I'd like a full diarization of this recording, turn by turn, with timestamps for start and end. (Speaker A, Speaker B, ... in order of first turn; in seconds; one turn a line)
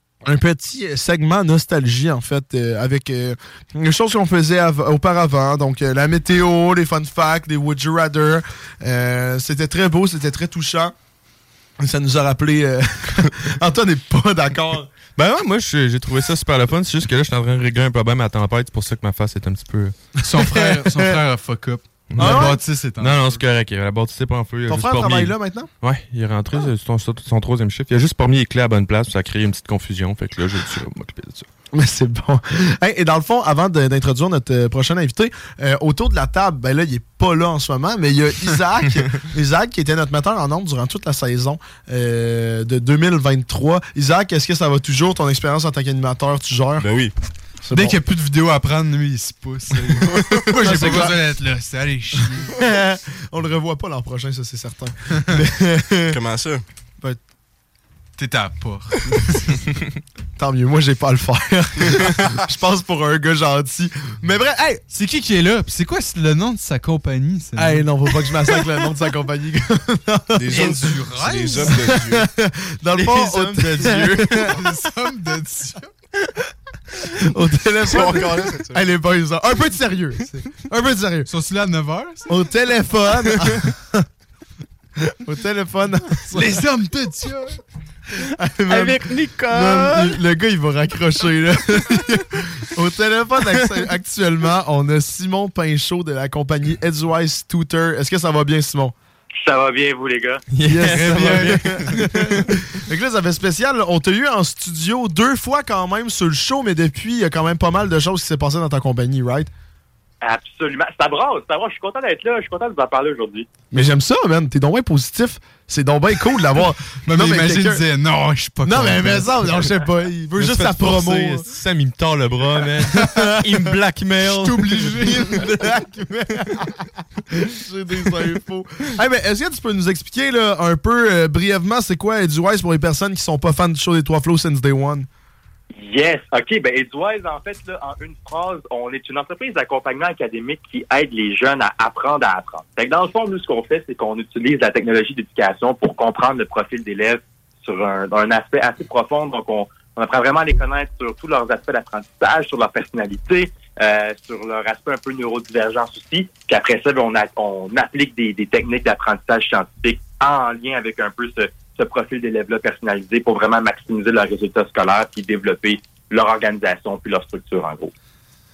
Speaker A: 0.2-10.9
Speaker A: 11.8-14.9
Speaker B: 15.2-19.9
Speaker C: 20.2-23.4
Speaker A: 20.3-21.1
Speaker B: 22.1-31.5
Speaker A: 22.2-22.6
Speaker A: 24.7-25.7
Speaker A: 31.7-46.9
Speaker D: 46.8-47.1
Speaker A: 47.6-48.0
Speaker C: 47.7-52.5
Speaker A: 50.5-51.2
Speaker A: 52.4-56.2
Speaker D: 56.1-56.6
Speaker C: 58.2-59.6
Speaker A: 60.4-64.8
Speaker C: 64.9-67.8
Speaker A: 67.5-70.9
Speaker D: 70.4-72.3
Speaker C: 70.5-71.9
Speaker A: 71.6-74.6
Speaker B: 72.9-74.5
Speaker C: 74.4-75.9
Speaker A: 77.2-81.3
Speaker D: 77.8-78.8
Speaker C: 81.3-82.3
Speaker A: 82.3-84.0
Speaker A: 85.0-86.6
Speaker C: 86.3-87.6
Speaker A: 88.3-98.9
Speaker B: 88.7-90.2
Speaker E: 99.4-100.4
Speaker B: 100.5-102.5
Speaker A: 100.6-109.5
Speaker C: 100.8-102.0
Speaker E: 110.2-113.5
Speaker A: 113.7-117.8
Speaker C: 117.0-119.7
Speaker A: 118.6-121.4
Speaker B: 120.4-125.0
Speaker A: 122.9-123.7
Speaker C: 124.4-125.4
Speaker A: 124.9-135.1
Speaker E: 135.7-167.9